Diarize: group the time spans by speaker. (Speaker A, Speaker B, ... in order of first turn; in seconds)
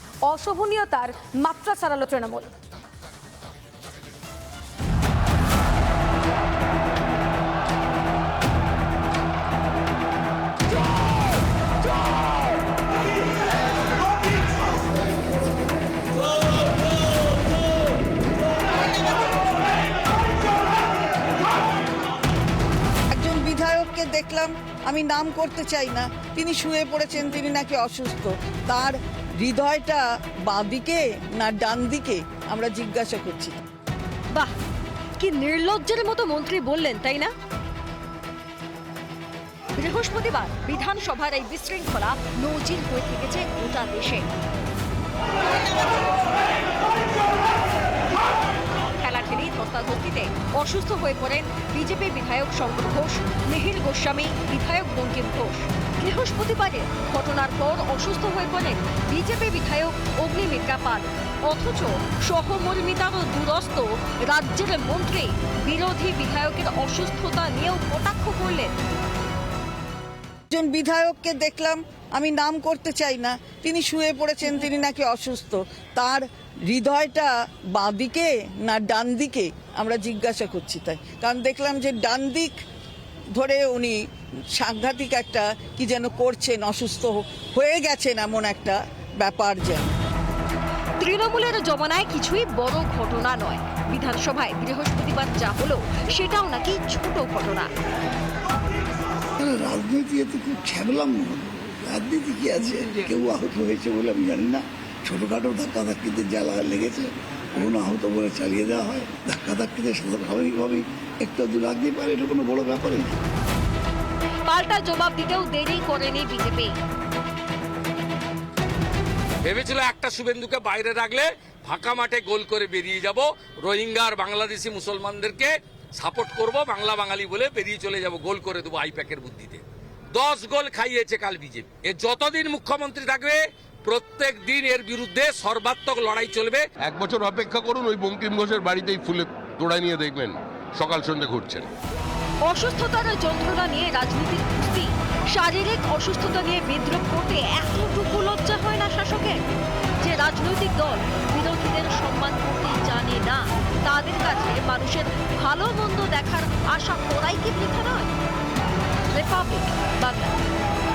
Speaker A: 0.2-2.5
Speaker B: 23.1-33.6, 70.5-82.5, 83.3-84.0, 84.5-89.9
Speaker C: 35.2-37.3, 39.8-44.3, 49.0-68.7, 91.0-97.7, 114.5-116.7, 142.5-149.4, 150.0-158.1, 159.1-160.3
Speaker D: 99.4-113.2
Speaker E: 119.4-136.7
Speaker F: 136.8-141.7